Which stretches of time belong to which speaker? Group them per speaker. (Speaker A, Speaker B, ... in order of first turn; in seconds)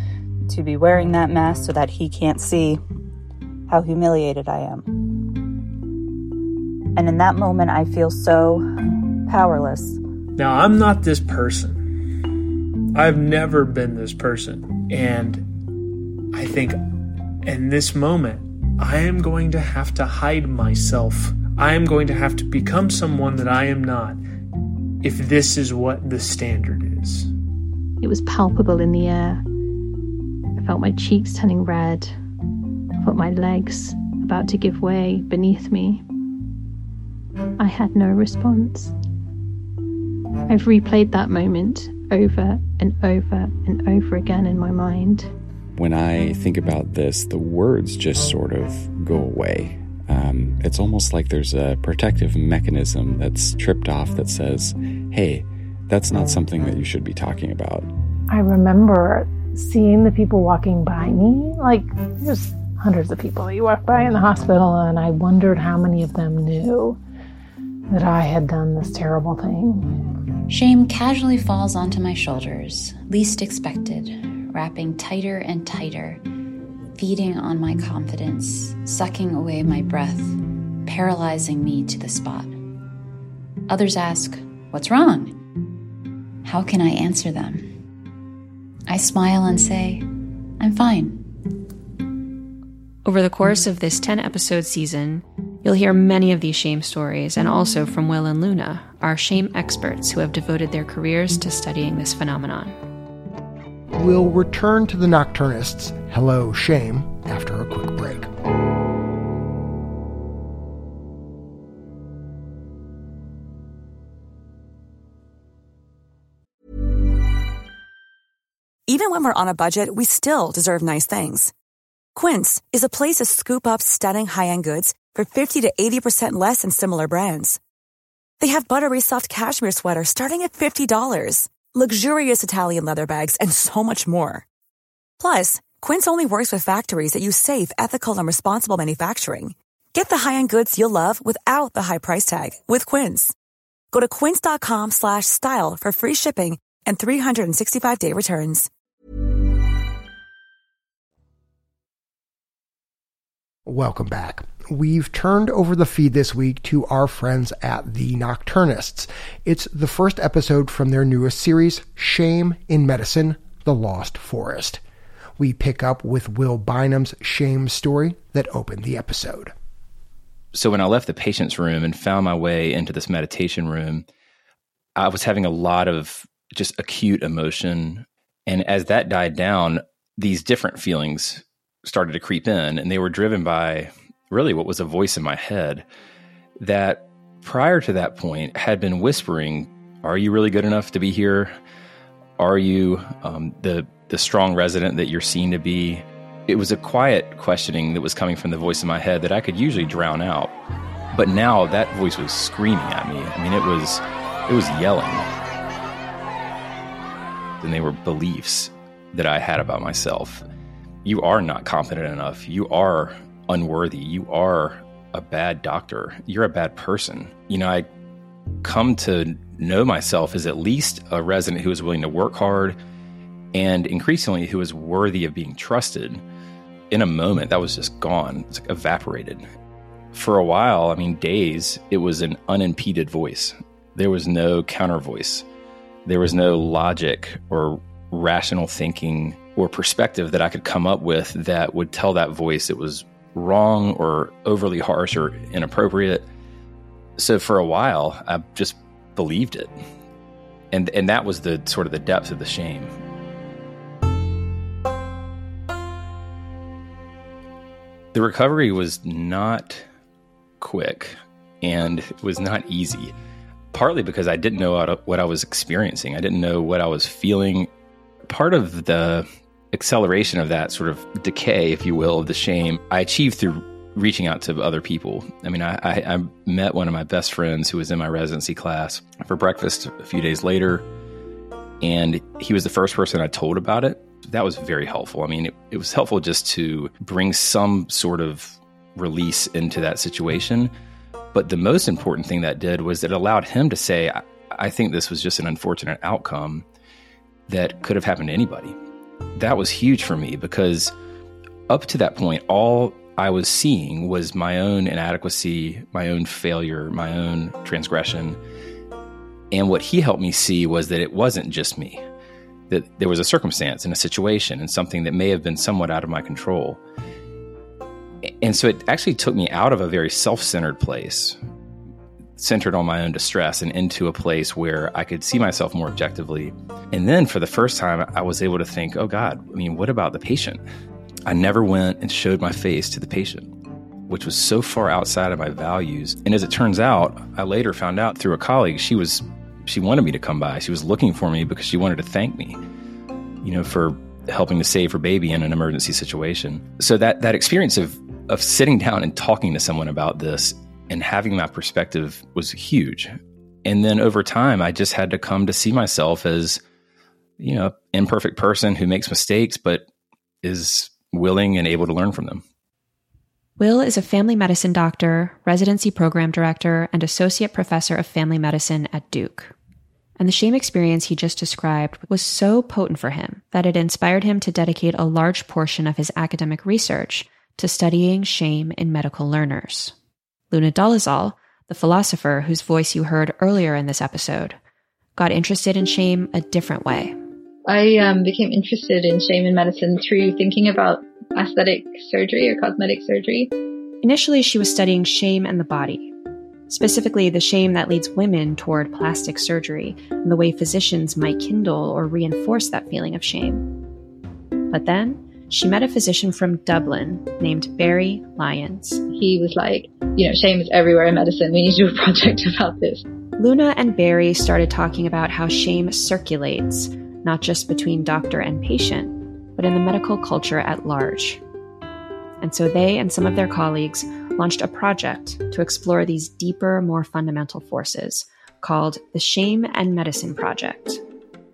Speaker A: 0.5-2.8, 3.7-4.9, 7.0-8.7, 9.3-10.0
Speaker B: 10.4-11.8, 12.9-15.4, 16.3-16.8, 17.4-24.2, 25.0-27.3
Speaker C: 28.0-29.4, 30.6-32.2, 33.0-36.0, 37.6-38.9, 40.5-45.3, 58.3-67.0, 67.9-69.9
Speaker D: 45.8-57.9
Speaker E: 70.5-76.2, 77.0-82.5, 83.7-85.4, 86.4-87.7, 88.9-90.1, 90.6-91.3
Speaker F: 93.0-102.8, 363.6-369.5, 370.2-379.9, 380.5-384.6, 385.2-387.1, 394.0-396.1, 396.7-403.7, 404.7-409.0, 413.4-421.4, 422.4-431.0
Speaker G: 103.9-108.3, 153.7-164.8, 165.4-169.5
Speaker H: 118.9-121.5, 122.2-127.6, 128.4-134.4, 135.2-143.3, 143.9-148.7
Speaker I: 170.5-174.1, 175.0-185.8, 186.6-191.5, 192.4-200.5, 201.1-205.3, 207.6-210.4, 211.0-217.9, 218.6-222.8, 223.5-226.2, 226.9-229.4, 230.1-235.4, 236.1-246.2, 247.2-249.7, 250.7-252.9, 258.1-259.9, 260.6-263.1, 263.7-267.7, 268.3-280.9, 281.8-290.7, 291.3-296.6, 297.5-298.8, 299.4-300.9, 301.7-308.4, 309.5-312.0, 312.7-316.8, 318.3-321.4, 322.4-330.6, 331.3-333.5, 334.1-342.6, 343.4-356.6, 357.4-359.9, 360.4-362.4
Speaker J: 387.7-393.5, 409.1-413.0